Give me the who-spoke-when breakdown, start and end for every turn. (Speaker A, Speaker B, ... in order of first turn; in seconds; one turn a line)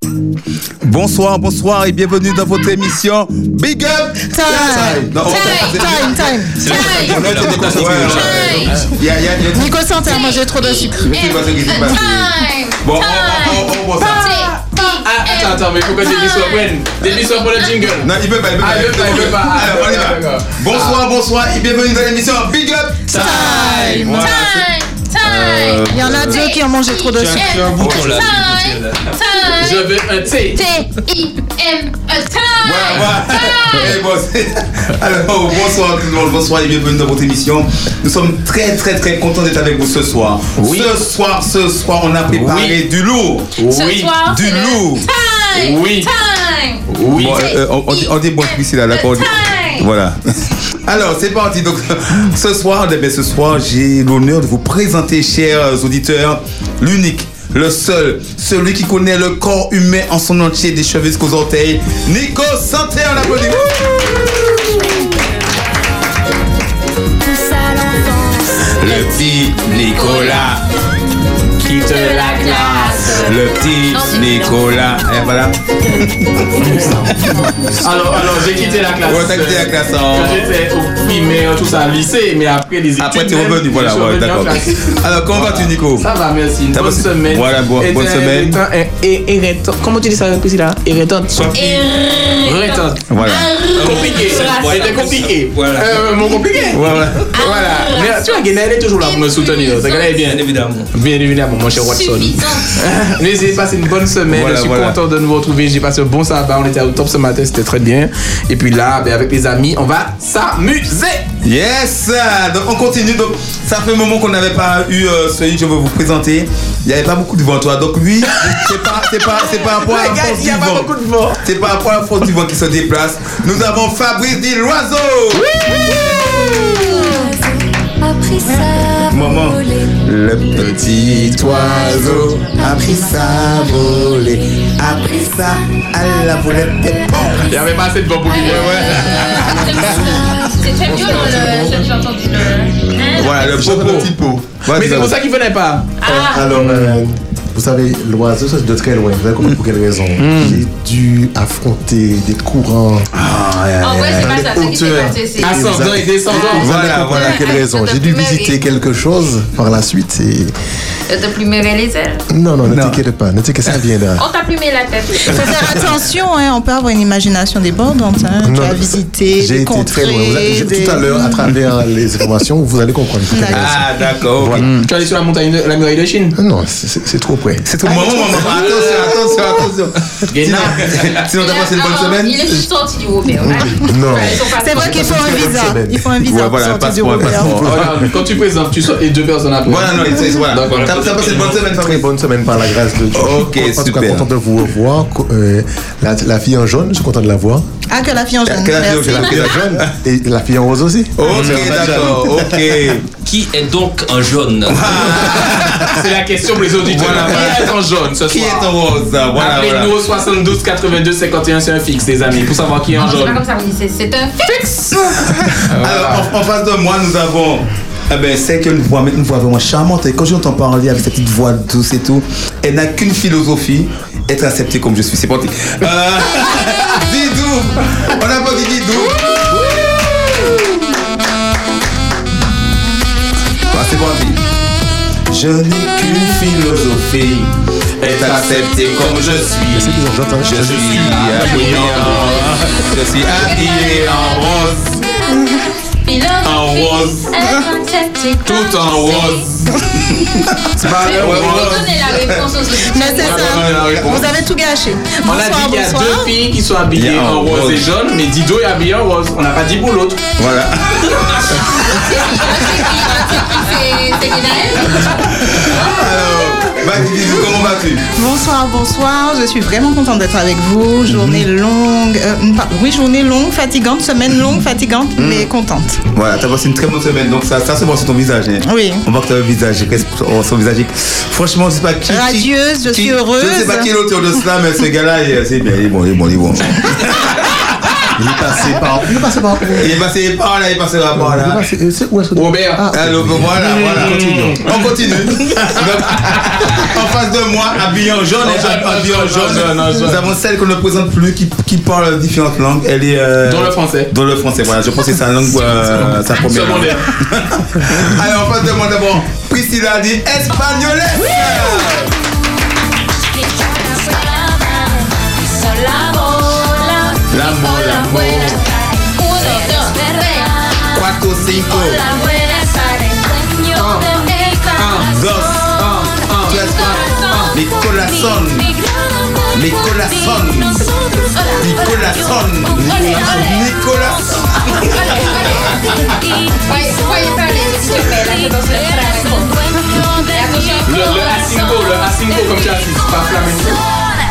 Speaker A: 0.8-9.8
Speaker B: 4.3-6.9
Speaker C: 5.2-5.9
Speaker D: 6.6-8.7
Speaker C: 6.7-7.2
Speaker E: 7.1-8.9
Speaker C: 8.1-8.7
Speaker B: 9.5-11.1
Speaker C: 10.0-17.8
Speaker A: 10.9-14.3
Speaker E: 14.8-21.0
Speaker A: 18.0-26.5
Speaker B: 23.1-24.2
Speaker E: 23.3-24.0
Speaker C: 24.0-30.0
Speaker B: 25.9-27.6
Speaker A: 27.2-28.6
Speaker D: 27.3-29.0
Speaker E: 29.5-30.7
Speaker C: 30.5-34.0
Speaker A: 32.6-43.5
Speaker E: 40.6-40.9
Speaker E: 42.3-42.7
Speaker E: 43.6-44.1
Speaker C: 43.7-49.9
Speaker A: 44.2-45.1
Speaker E: 45.5-46.1
Speaker E: 46.9-47.4
Speaker A: 47.1-64.9
Speaker A: 68.7-70.6
Speaker C: 69.8-70.5
Speaker E: 71.6-73.2
Speaker C: 71.8-75.0
Speaker A: 73.2-78.2
Speaker E: 76.6-76.9
Speaker E: 77.7-91.6
Speaker A: 79.0-80.5
Speaker A: 83.0-86.1
Speaker A: 86.7-88.6
Speaker D: 91.3-91.8
Speaker C: 91.5-95.2
Speaker E: 92.4-93.0
Speaker A: 93.1-93.5
Speaker D: 93.8-96.2
Speaker E: 93.8-111.2
Speaker C: 96.4-96.7
Speaker A: 96.7-97.3
Speaker C: 97.3-100.3
Speaker D: 100.2-100.9
Speaker C: 101.7-102.8
Speaker A: 104.3-105.0
Speaker A: 111.4-120.9
Speaker E: 118.3-121.5
Speaker A: 121.4-125.5
Speaker E: 125.3-127.3
Speaker A: 129.0-137.5
Speaker E: 130.6-132.5
Speaker E: 137.4-139.4
Speaker C: 138.2-143.7
Speaker A: 138.4-140.2
Speaker F: 140.8-141.7
Speaker A: 143.2-145.1
Speaker F: 143.7-144.4
Speaker E: 144.7-145.9
Speaker C: 146.0-146.7
Speaker F: 146.0-153.1
Speaker E: 146.5-147.0
Speaker E: 150.2-150.6
Speaker A: 153.1-154.4
Speaker C: 153.8-155.7
Speaker F: 154.1-160.5
Speaker E: 155.4-156.9
Speaker C: 156.3-158.6
Speaker A: 156.6-157.4
Speaker C: 161.1-162.2
Speaker F: 162.3-164.2
Speaker A: 162.7-163.0
Speaker C: 164.2-165.5
Speaker B: 165.3-171.4
Speaker F: 168.4-174.8
Speaker B: 173.3-173.7
Speaker A: 173.5-174.7
Speaker E: 174.6-176.4
Speaker F: 176.3-177.7
Speaker A: 177.6-182.5
Speaker E: 178.5-179.2
Speaker E: 180.3-181.3
Speaker C: 181.3-185.0
Speaker F: 183.4-186.0
Speaker B: 184.5-187.6
Speaker A: 186.2-188.0
Speaker F: 187.2-188.0
Speaker E: 187.5-190.9
Speaker A: 189.7-192.1
Speaker D: 190.5-191.7
Speaker F: 191.7-197.7
Speaker A: 193.1-194.3
Speaker B: 197.9-199.6
Speaker A: 198.4-199.9
Speaker F: 199.1-202.6
Speaker A: 201.1-203.1
Speaker E: 201.2-201.9
Speaker D: 203.2-205.2
Speaker A: 204.7-206.0
Speaker E: 205.3-208.7
Speaker A: 206.8-209.9
Speaker E: 209.3-213.4
Speaker C: 213.0-214.7
Speaker E: 215.6-216.3
Speaker A: 215.8-229.8
Speaker A: 233.7-234.4
Speaker A: 235.3-239.8
Speaker E: 238.0-240.0
Speaker F: 239.7-241.2
Speaker A: 240.4-245.0
Speaker E: 240.6-242.6
Speaker C: 241.4-242.5
Speaker C: 243.3-245.5
Speaker C: 246.0-249.5
Speaker A: 246.4-247.4
Speaker E: 248.4-249.7
Speaker E: 250.8-251.8
Speaker C: 250.9-253.5
Speaker A: 251.0-252.5
Speaker B: 252.8-256.3
Speaker E: 253.1-254.3
Speaker A: 253.4-254.2
Speaker E: 255.2-260.2
Speaker A: 256.9-257.9
Speaker A: 260.4-262.7
Speaker C: 261.8-265.1
Speaker A: 265.1-268.1
Speaker E: 265.8-266.5
Speaker B: 268.1-276.0
Speaker A: 271.1-271.4
Speaker A: 275.2-275.5
Speaker A: 276.1-287.9
Speaker B: 278.6-279.0
Speaker B: 282.1-283.9
Speaker F: 288.1-290.0
Speaker A: 289.7-291.6
Speaker F: 291.1-294.5
Speaker E: 292.3-292.9
Speaker A: 292.9-312.1
Speaker E: 293.6-294.9
Speaker E: 298.4-300.3
Speaker E: 303.4-304.1
Speaker E: 305.6-307.1
Speaker C: 306.3-307.0
Speaker C: 313.4-320.9
Speaker A: 317.3-318.7
Speaker A: 320.9-322.0
Speaker C: 321.4-325.7
Speaker E: 323.7-324.1
Speaker E: 324.8-325.1
Speaker A: 325.0-325.8
Speaker E: 325.7-327.6
Speaker A: 326.4-328.7
Speaker C: 326.5-327.6
Speaker A: 329.5-330.9
Speaker C: 331.3-332.0
Speaker A: 331.6-336.1
Speaker C: 332.7-333.7
Speaker C: 334.6-335.9
Speaker C: 336.5-342.1
Speaker E: 340.8-343.8